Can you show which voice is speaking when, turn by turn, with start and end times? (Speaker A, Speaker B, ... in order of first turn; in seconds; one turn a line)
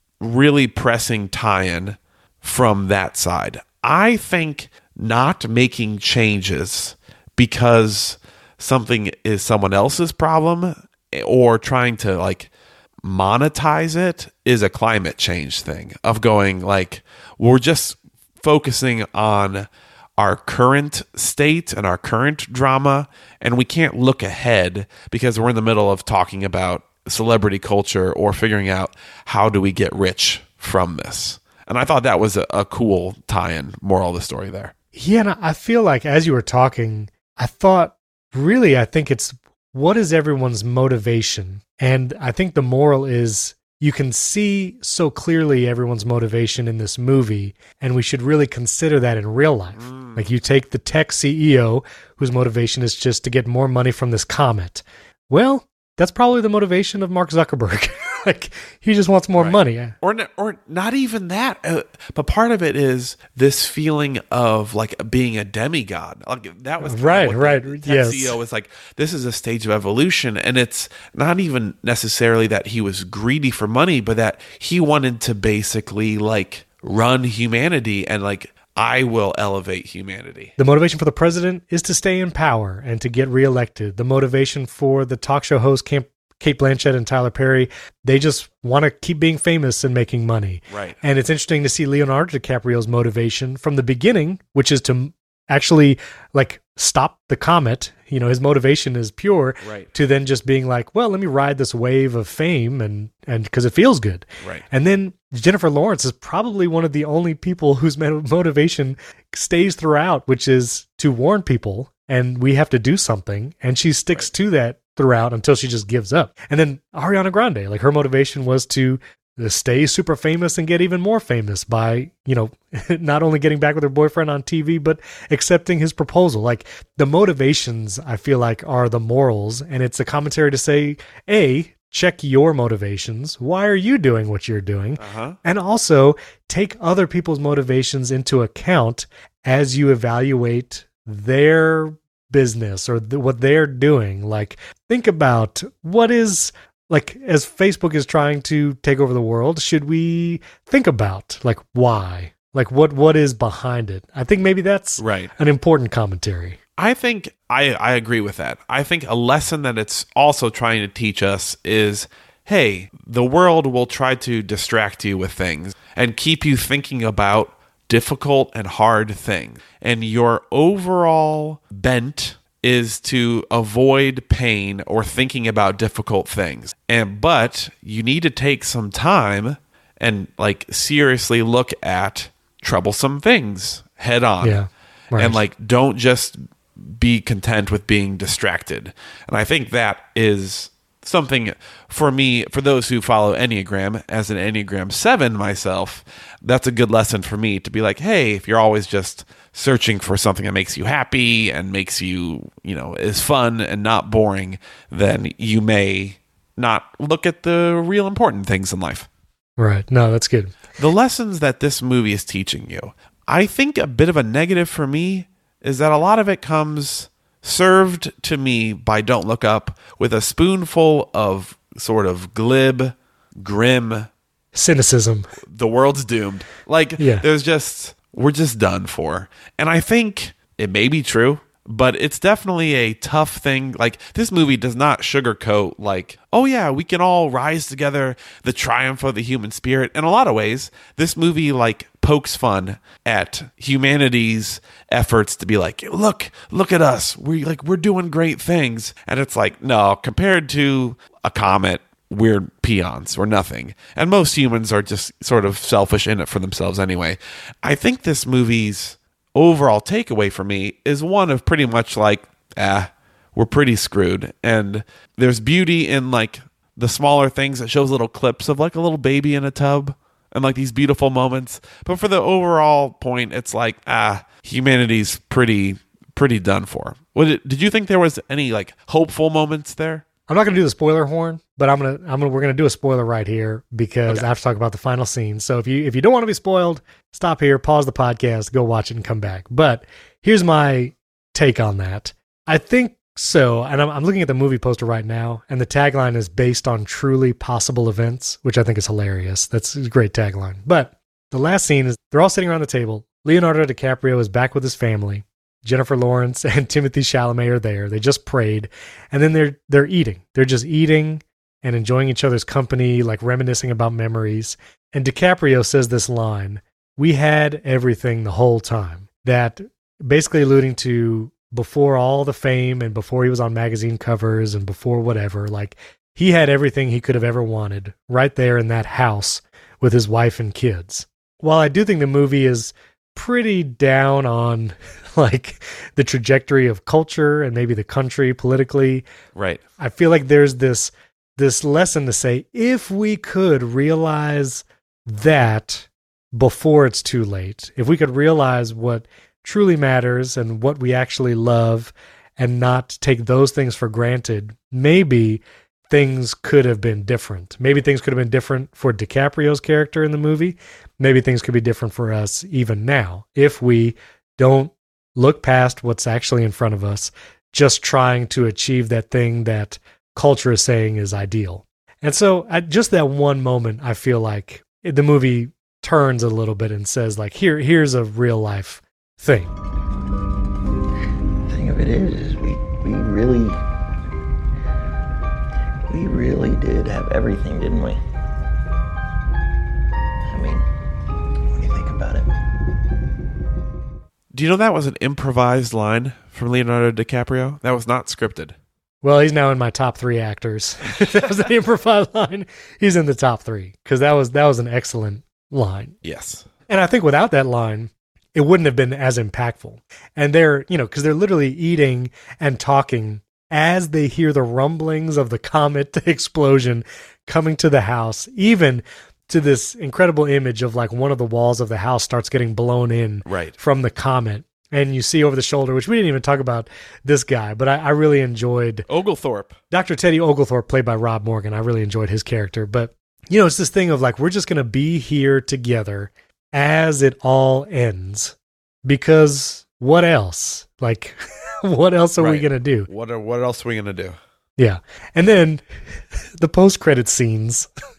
Speaker A: 0.2-12.5
Speaker A: 13.0-34.7
Speaker B: 34.9-60.0
Speaker A: 49.7-50.3
Speaker A: 59.4-80.5
Speaker B: 66.8-68.4
Speaker B: 80.6-156.6
Speaker A: 90.7-91.0
Speaker A: 99.6-99.9
Speaker A: 104.4-104.7
Speaker A: 135.0-135.4
Speaker A: 155.0-155.3
Speaker A: 156.8-184.6
Speaker B: 184.4-185.4
Speaker A: 185.2-209.1
Speaker B: 209.6-210.5
Speaker A: 210.8-224.1
Speaker B: 224.5-225.3
Speaker A: 225.4-280.1
Speaker B: 227.0-227.2
Speaker B: 280.3-339.0
Speaker A: 339.4-339.6
Speaker B: 339.8-379.5
Speaker C: 381.5-383.6
Speaker C: 385.9-388.0
Speaker C: 390.3-390.6
Speaker C: 391.5-392.3
Speaker A: 394.3-398.6
Speaker B: 399.0-406.0
Speaker A: 406.0-406.5
Speaker B: 406.7-428.9
Speaker A: 423.2-423.6
Speaker A: 428.9-429.6
Speaker B: 429.7-442.9
Speaker A: 442.2-444.2
Speaker B: 444.6-445.7
Speaker B: 446.4-447.7